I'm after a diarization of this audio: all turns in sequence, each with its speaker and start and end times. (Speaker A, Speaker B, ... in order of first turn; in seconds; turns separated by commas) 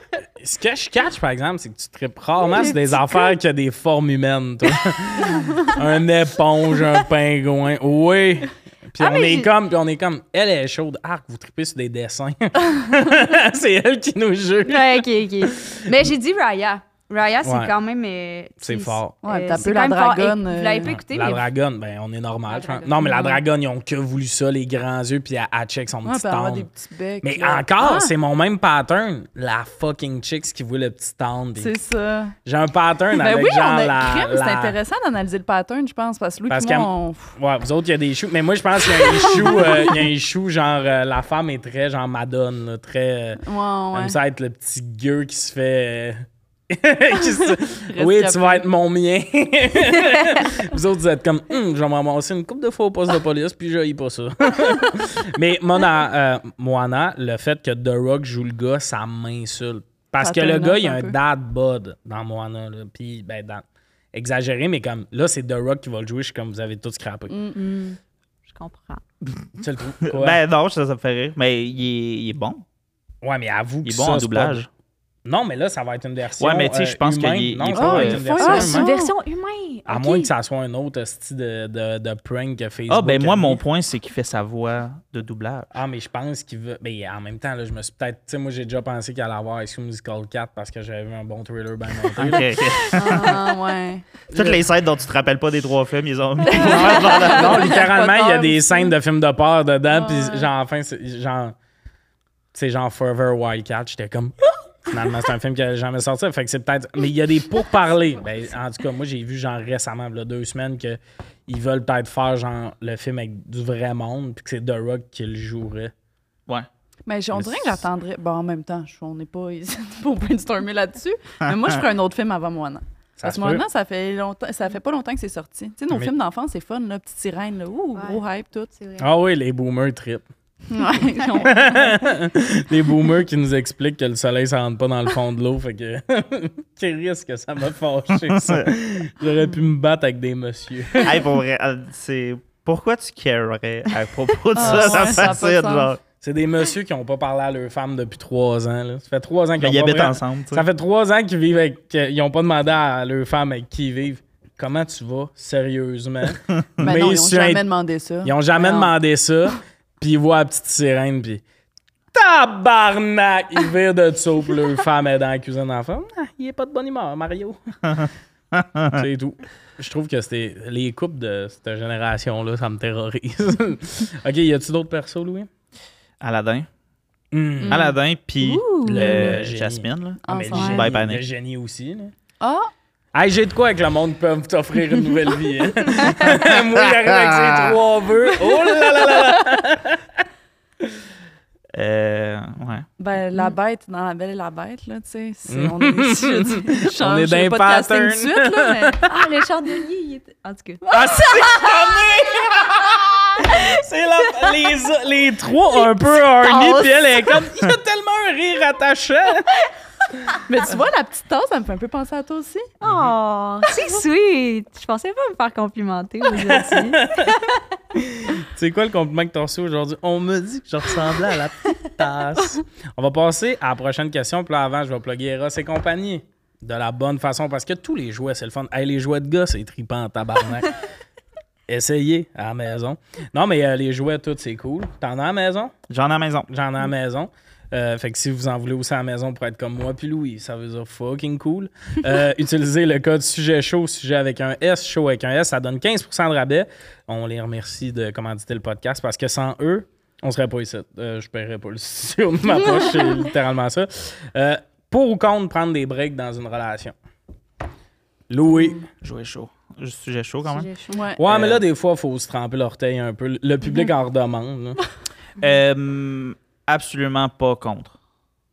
Speaker A: 0.4-15.1, Speaker B: 2.4-3.4, Speaker B: 9.0-9.5, Speaker B: 14.7-21.4, Speaker A: 15.6-16.1, Speaker A: 17.4-17.7, Speaker A: 18.6-19.2, Speaker C: 19.2-20.9, Speaker A: 20.8-26.7, Speaker B: 22.5-23.4, Speaker C: 23.0-23.3, Speaker C: 26.1-28.1, Speaker A: 27.2-31.7, Speaker C: 31.6-32.4, Speaker A: 32.5-34.8, Speaker C: 33.1-37.3, Speaker A: 36.5-67.3, Speaker C: 39.2-40.0, Speaker C: 43.4-44.2, Speaker C: 47.9-48.6, Speaker C: 60.2-61.2, Speaker C: 67.3-67.6, Speaker B: 67.5-69.0, Speaker A: 69.5-70.4, Speaker D: 70.0-72.6, Speaker A: 73.2-74.6, Speaker D: 73.8-74.7, Speaker A: 75.2-78.9, Speaker D: 76.4-78.4, Speaker C: 77.7-79.1, Speaker B: 78.4-80.3, Speaker A: 79.9-83.6, Speaker D: 82.9-85.7, Speaker A: 85.7-92.6, Speaker D: 92.1-93.5, Speaker C: 92.9-94.1, Speaker D: 94.3-97.8, Speaker A: 94.3-94.6, Speaker C: 96.5-98.9, Speaker A: 96.6-101.5, Speaker C: 99.9-100.5, Speaker A: 102.5-115.9, Speaker C: 117.0-128.7, Speaker A: 117.4-117.8, Speaker A: 123.2-123.6, Speaker B: 128.0-128.2, Speaker B: 128.7-129.1, Speaker A: 129.0-130.2, Speaker C: 130.7-131.9, Speaker A: 131.4-141.2, Speaker D: 138.2-138.7, Speaker D: 141.0-146.0, Speaker C: 144.6-145.9, Speaker A: 144.6-145.3, Speaker A: 146.2-157.6, Speaker D: 149.6-150.6, Speaker C: 156.8-158.9, Speaker A: 158.2-161.4, Speaker A: 162.1-167.6, Speaker D: 168.0-169.0, Speaker A: 168.9-175.5, Speaker D: 176.2-176.7, Speaker A: 177.3-177.9, Speaker C: 177.6-177.9, Speaker D: 177.7-181.2, Speaker B: 178.4-179.4, Speaker A: 178.8-182.1, Speaker C: 180.2-180.8, Speaker B: 180.5-180.8, Speaker C: 182.4-182.7, Speaker A: 183.1-190.0, Speaker D: 191.7-192.9, Speaker C: 193.0-199.0, Speaker A: 195.5-199.1, Speaker B: 199.1-201.8, Speaker C: 200.9-201.2, Speaker A: 200.9-209.5, Speaker B: 204.3-204.6, Speaker C: 206.5-207.3, Speaker C: 210.5-212.7, Speaker B: 212.8-217.3, Speaker A: 212.8-213.1, Speaker C: 213.7-214.0, Speaker A: 216.4-217.4, Speaker A: 217.9-230.7, Speaker A: 231.7-235.7, Speaker D: 235.9-236.5, Speaker A: 236.5-256.9, Speaker A: 258.3-258.9, Speaker D: 259.0-260.7, Speaker B: 260.5-261.0, Speaker C: 260.9-261.2, Speaker A: 261.2-264.8, Speaker D: 261.2-261.6, Speaker D: 265.4-267.9